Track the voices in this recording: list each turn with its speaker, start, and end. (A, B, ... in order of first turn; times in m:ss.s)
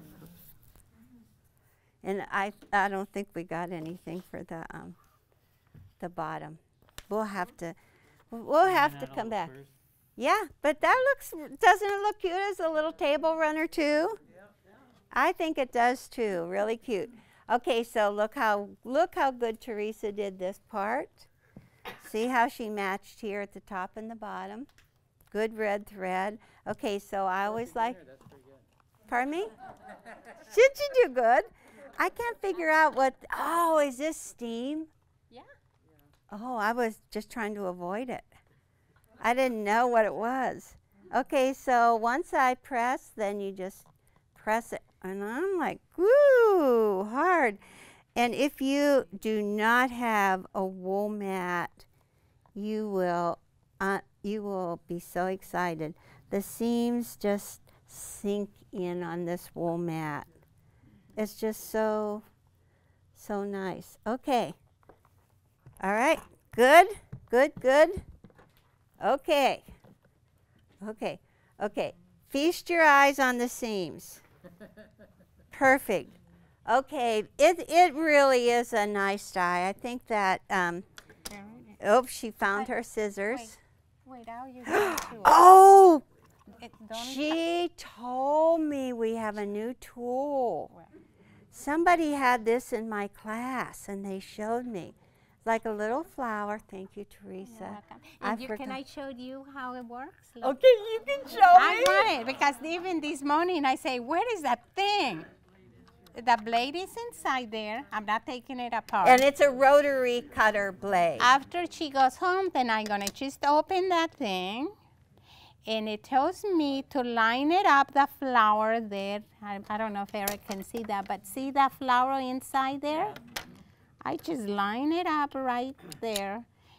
0:02.0-0:05.0 A
0:06.0-0:07.8 A
0:08.3-0:09.5 A
0:08.6-0:09.7 B
0:10.2-0:14.2 A
0:15.1-0:21.3 A
0:22.0-0:24.7 A
0:25.3-0:28.0 A
0:27.4-0:28.6 B
0:29.1-0:29.5 A
0:30.4-0:34.9 A
0:36.3-0:38.3 A
0:39.2-0:47.6 A
0:48.1-0:51.8 A
0:52.5-1:00.3 A
1:01.2-1:02.2 A
1:03.1-1:04.6 A
1:05.8-1:08.0 A
1:09.0-1:09.6 A
1:10.8-1:14.2 A
1:15.5-1:16.1 A
1:16.6-1:20.8 A
1:21.3-1:21.8 C
1:21.8-1:23.6 A
1:24.0-1:25.4 C
1:24.6-1:26.0 A
1:26.5-1:27.4 C
1:26.9-1:30.7 A
1:31.5-1:38.8 A
1:37.4-1:40.6 C
1:40.4-1:42.1 A
1:41.5-1:45.3 C
1:46.1-1:49.2 C
1:49.0-1:51.3 A
1:51.2-1:54.7 C
1:55.6-2:03.2 C
2:04.0-2:06.5 C